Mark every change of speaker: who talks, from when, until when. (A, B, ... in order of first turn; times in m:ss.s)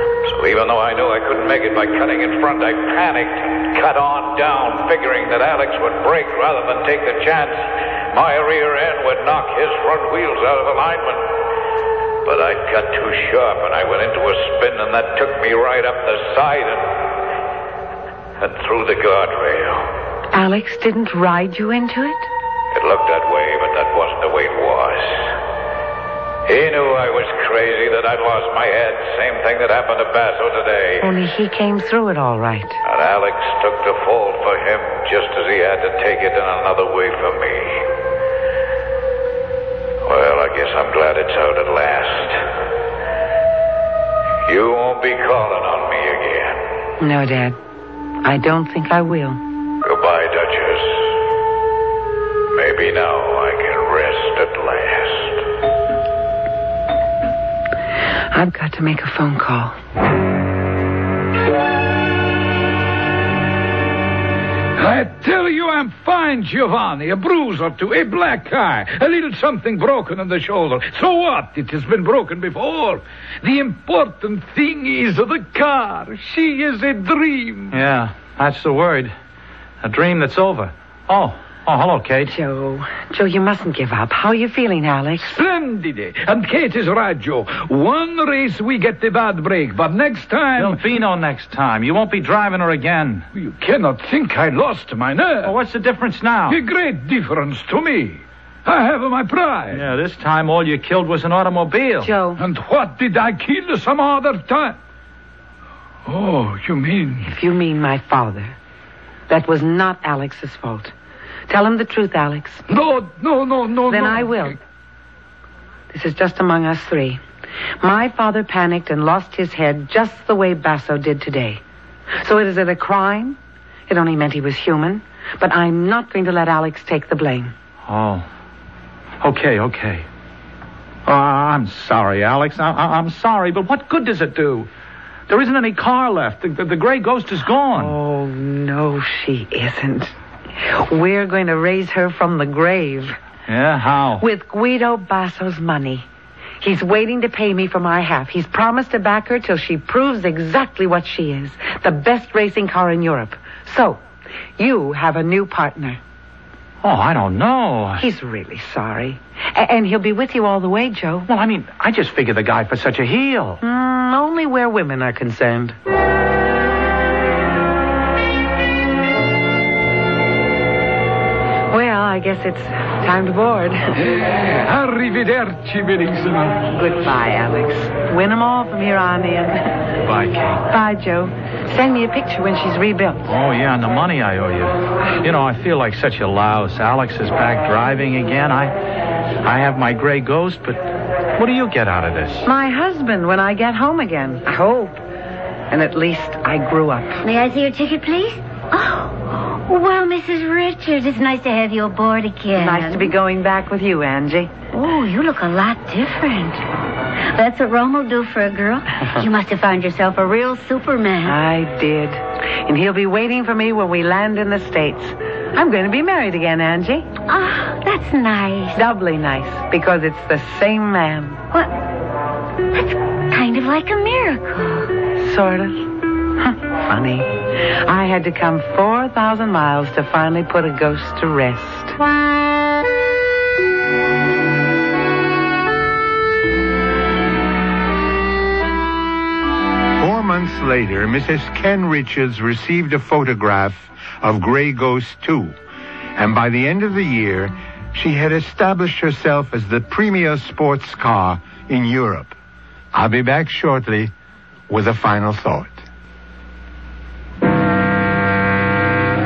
0:00.3-0:11.3 A
0:12.2-0:17.2 A
0:18.4-0:19.9 A
0:20.3-0:22.3 B
0:22.7-0:25.4 A
0:26.5-0:31.1 A
0:31.0-0:32.8 B
0:32.8-0:37.9 A
0:40.0-0:42.5 A
0:44.5-0:46.7 A
0:47.0-0:47.6 B
0:48.2-0:49.4 B
0:49.8-0:51.2 A
0:52.5-0:55.4 A
0:58.3-0:59.8 B
1:04.8-1:17.8 C
1:17.7-1:19.1 D
1:19.8-1:22.3 D
1:22.3-1:25.4 B
1:25.2-1:30.8 C
1:30.6-1:33.3 D
1:33.3-1:35.6 C
1:35.4-1:36.6 D
1:36.5-1:39.9 C
1:39.7-1:42.1 D
1:42.0-1:42.4 B
1:42.4-1:44.8 C
1:46.1-1:47.3 C
1:47.2-1:48.6 B
1:49.3-1:50.9 B
1:51.5-1:52.6 B
1:52.7-1:54.5 C
1:53.9-1:54.6 B
1:55.9-1:57.2 B
1:57.8-2:01.6 B
2:02.2-2:07.5 B
2:07.9-2:08.3 D
2:09.2-2:10.1 D
2:11.1-2:14.7 D
2:15.3-2:18.0 D
2:17.7-2:23.2 B
2:23.5-2:24.2 D
2:24.2-2:26.1 B
2:26.6-2:34.0 B
2:34.6-2:36.0 B
2:36.8-2:38.0 D
2:38.0-2:41.3 B
2:41.3-2:43.6 D
2:43.6-2:45.8 B
2:51.7-2:54.0 B
2:54.0-2:56.6 C
2:56.7-2:59.7 B
3:00.0-3:00.6 D
3:00.7-3:03.3 B
3:03.3-3:08.8 D
3:09.4-3:10.8 D
3:11.4-3:12.5 D
3:12.4-3:15.0 B
3:15.7-3:17.2 B
3:17.2-3:23.1 E
3:22.6-3:24.6 B
3:24.7-3:26.6 E
3:27.2-3:31.4 E
3:31.2-3:37.1 B
3:37.2-3:38.8 E
3:38.7-3:41.4 B
3:41.5-3:41.8 E
3:42.7-3:45.0 E
3:45.2-3:52.0 B
4:00.0-4:05.6 F
4:06.2-4:12.4 F
4:12.9-4:14.1 F
4:14.7-4:15.8 F